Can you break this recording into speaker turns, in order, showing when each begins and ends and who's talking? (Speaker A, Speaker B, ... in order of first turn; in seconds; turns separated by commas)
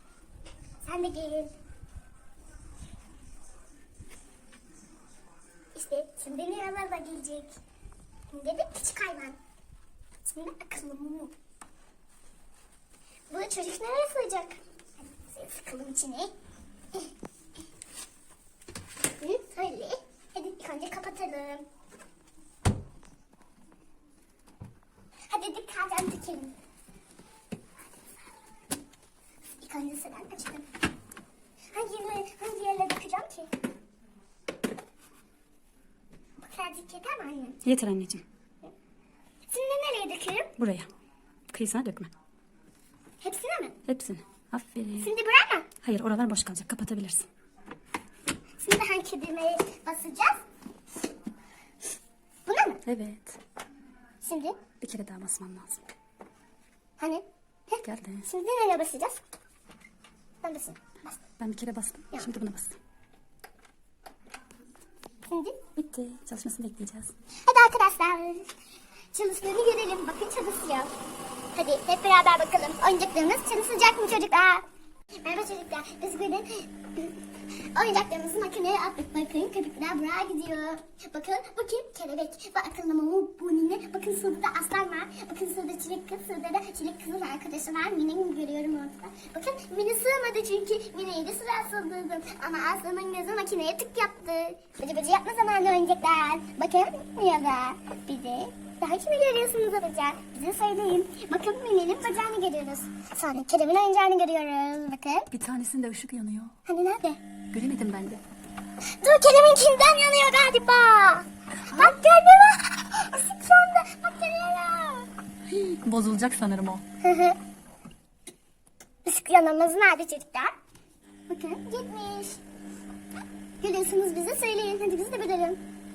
Speaker A: 0.8-1.5, Speaker A: 5.8-7.6, Speaker A: 8.3-9.4, Speaker A: 10.2-11.3, Speaker A: 13.3-16.3, Speaker A: 19.2-21.6, Speaker A: 25.3-26.6, Speaker A: 29.6-30.7, Speaker A: 31.7-33.5, Speaker A: 36.4-37.6, Speaker B: 37.6-38.2, Speaker A: 39.5-40.6, Speaker B: 40.6-40.9, Speaker B: 41.5-42.1, Speaker A: 43.2-43.8, Speaker B: 43.9-45.1, Speaker A: 45.0-45.7, Speaker B: 45.8-47.3, Speaker A: 48.6-50.4, Speaker A: 52.5-52.8, Speaker B: 52.9-53.4, Speaker A: 54.2-54.6, Speaker B: 54.8-55.8, Speaker A: 57.0-59.2, Speaker B: 57.8-58.3, Speaker A: 60.4-61.2, Speaker B: 61.4-62.8, Speaker A: 65.2-65.6, Speaker B: 65.8-67.1, Speaker A: 67.5-68.5, Speaker A: 69.1-71.0, Speaker A: 71.5-74.7, Speaker A: 75.2-77.2, Speaker A: 77.7-105.3, Speaker B: 105.3-106.5, Speaker A: 106.7-107.2, Speaker B: 107.5-108.2, Speaker A: 108.9-115.1, Speaker B: 111.6-112.0, Speaker B: 115.5-116.8, Speaker A: 117.0-117.4, Speaker A: 119.0-120.6, Speaker A: 121.3-122.4, Speaker A: 123.6-125.6